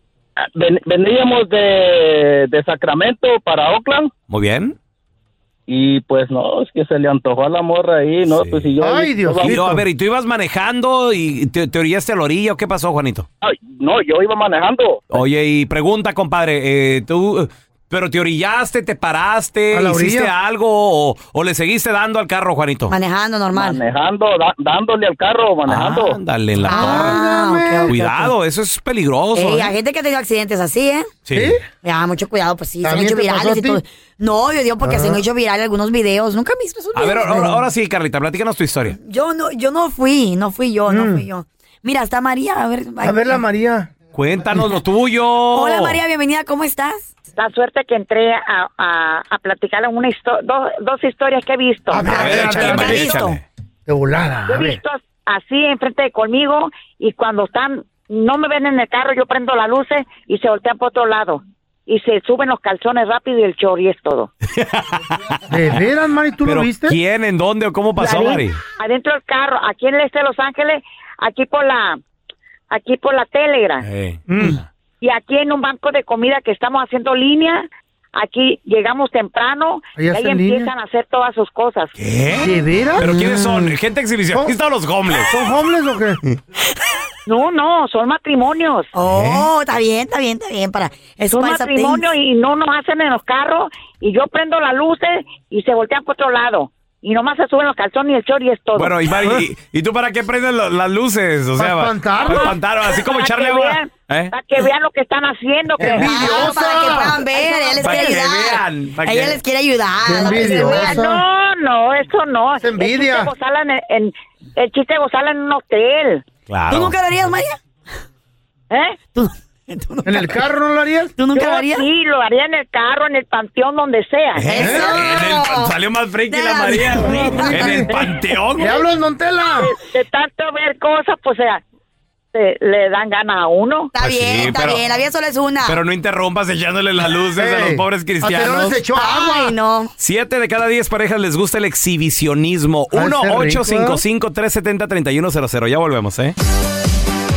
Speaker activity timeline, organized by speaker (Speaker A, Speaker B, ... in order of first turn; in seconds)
Speaker A: 0.4-4.1, 5.7-9.6, 13.4-15.2, 23.5-26.2
Speaker B: 4.3-4.8, 8.2-8.7, 9.4-13.3, 15.1-22.9, 25.7-27.2, 27.9-29.7, 31.3-31.6, 37.0-39.0, 44.1-46.0, 52.1-53.4, 64.5-65.4, 66.5-68.6, 73.8-74.7, 82.0-85.3, 89.0-89.5, 98.8-104.3, 107.8-109.4, 116.5-117.0, 124.3-128.7, 134.0-134.8, 135.7-138.8, 140.0-146.3
Speaker C: 8.8-9.8, 19.7-20.3, 26.7-28.0, 31.3-31.6, 32.8-33.8, 34.8-35.2, 40.9-41.2, 43.0-43.9, 51.9-53.2, 53.9-54.8, 65.5-67.0, 74.3-74.6, 80.0-80.7, 82.4-83.1, 85.2-86.4, 101.6-102.5, 105.8-107.8, 110.0-111.2, 112.6-113.3, 120.0-121.2, 124.6-125.0, 127.0-127.9, 128.6-129.7, 137.4-139.6, 142.9-144.0
Speaker D: 22.9-23.8, 26.7-28.3, 29.4-31.1, 31.8-37.6, 39.0-43.3, 45.5-47.1, 52.0-53.4, 83.0-83.4, 88.9-92.1, 105.8-111.1, 116.7-117.6, 119.0-120.4, 121.2-121.9, 124.4-125.7, 126.3-128.4, 133.9-135.8, 138.9-139.9
Speaker E: 47.4-52.1, 54.5-64.3, 68.0-72.0, 72.7-73.9, 75.0-81.9, 87.3-88.9, 91.3-99.0, 103.0-106.6, 110.6-116.2, 118.7-119.0, 121.3-124.5, 129.6-131.6, 132.3-133.9